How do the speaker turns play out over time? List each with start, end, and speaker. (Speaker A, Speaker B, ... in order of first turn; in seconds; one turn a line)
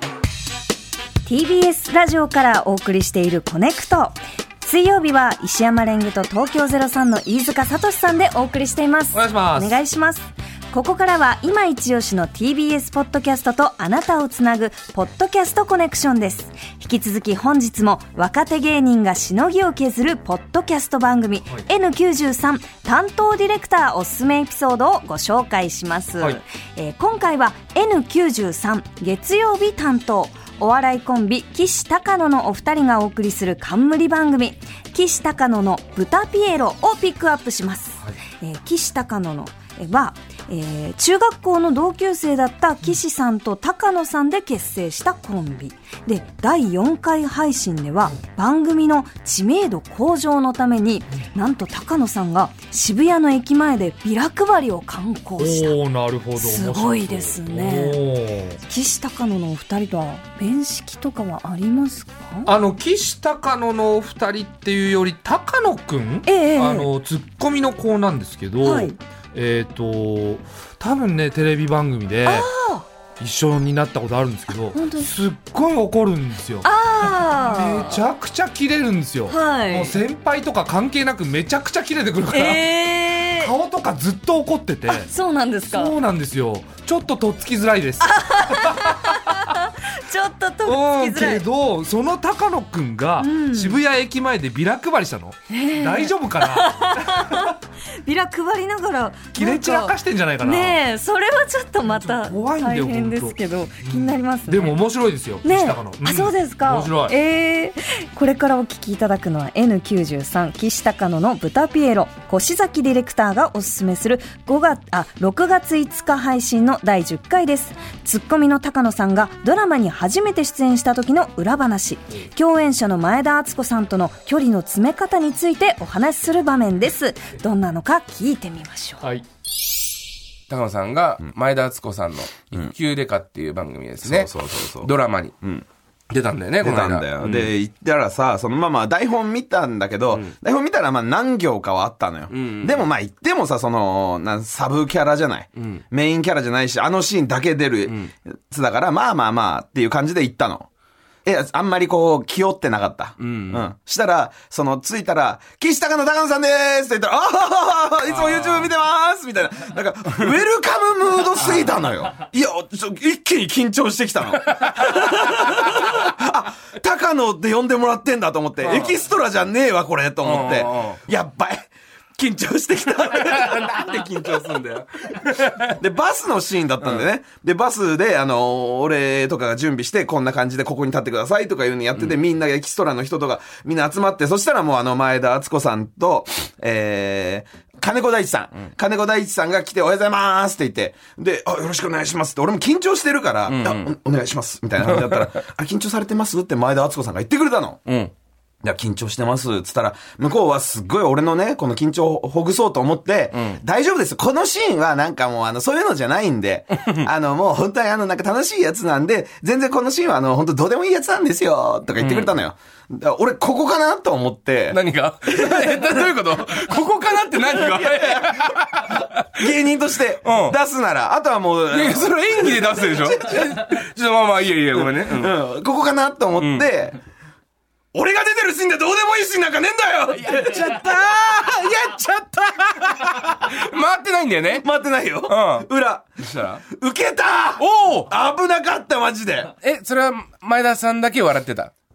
Speaker A: 1.2-55.8
Speaker B: 9.1-9.8
Speaker B: 55.4-58.6
Speaker A: 56.4-58.0
Speaker A: 58.6-62.5
Speaker B: 62.5-72.5
Speaker A: 66.3-66.9
Speaker A: 68.6-69.0
Speaker A: 72.2-72.9
Speaker B: 73.2-76.7
Speaker A: 74.7-75.2
Speaker A: 76.6-78.0
Speaker B: 77.3-82.6
Speaker A: 79.3-80.0
Speaker A: 82.3-83.5
Speaker B: 83.4-85.1
Speaker A: 84.9-86.0
Speaker B: 85.7-89.0
Speaker A: 88.0-91.5
Speaker B: 90.7-97.5
Speaker A: 93.2-93.8
Speaker A: 95.5-104.8
Speaker B: 99.3-100.8
Speaker B: 101.8-107.1
Speaker A: 105.4-129.1
Speaker C: 130.5-135.3
Speaker D: 134.0-135.7
Speaker C: 136.1-137.5
Speaker D: 136.6-150.7
Speaker C: 142.3-142.9
Speaker D: 151.2-174.6
Speaker C: 153.2-153.7
Speaker C: 158.1-158.7
Speaker C: 168.6-168.9
Speaker C: 170.2-171.0
Speaker C: 173.3-175.7
Speaker D: 175.8-197.8
Speaker C: 176.8-177.1
Speaker C: 193.5-193.9
Speaker C: 197.9-198.1
Speaker D: 198.6-214.8
Speaker C: 212.0-212.3
Speaker C: 214.7-219.5
Speaker D: 215.3-216.1
Speaker D: 217.4-218.4
Speaker D: 219.3-223.7
Speaker C: 220.2-220.6
Speaker C: 221.7-225.3
Speaker D: 225.0-227.0
Speaker C: 226.4-226.7
Speaker D: 227.9-233.2
Speaker C: 230.2-230.9
Speaker C: 232.8-234.7
Speaker D: 234.5-236.2
Speaker C: 235.3-235.7
Speaker C: 236.2-236.6
Speaker D: 236.7-239.5
Speaker C: 237.6-238.1
Speaker C: 239.6-241.7